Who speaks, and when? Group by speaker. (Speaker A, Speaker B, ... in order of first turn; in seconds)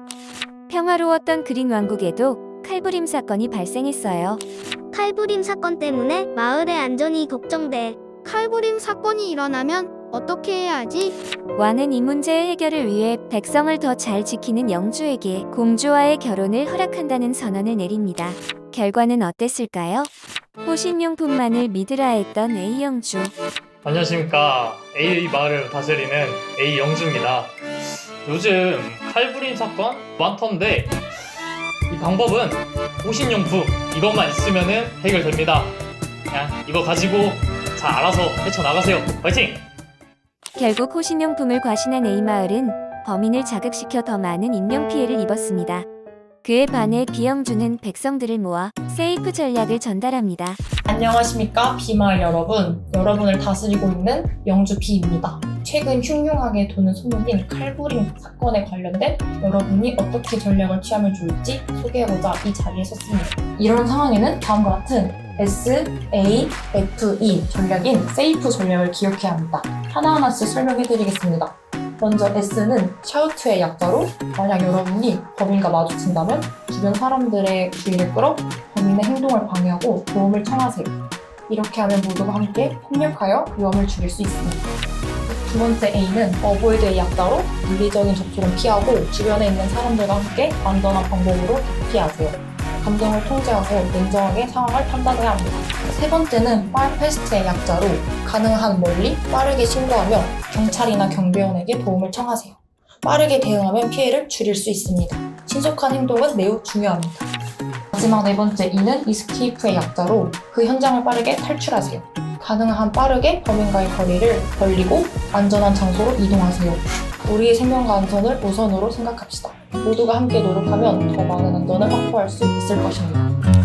Speaker A: 0.7-4.4, 11.6-20.1, 20.6-23.3, 40.6-45.9, 46.4-50.6
Speaker B: 4.9-8.0
Speaker C: 8.2-11.2
Speaker D: 23.8-31.0, 31.9-35.8, 36.3-39.7
Speaker E: 50.9-81.0, 81.5-84.7, 85.2-107.3, 107.9-123.3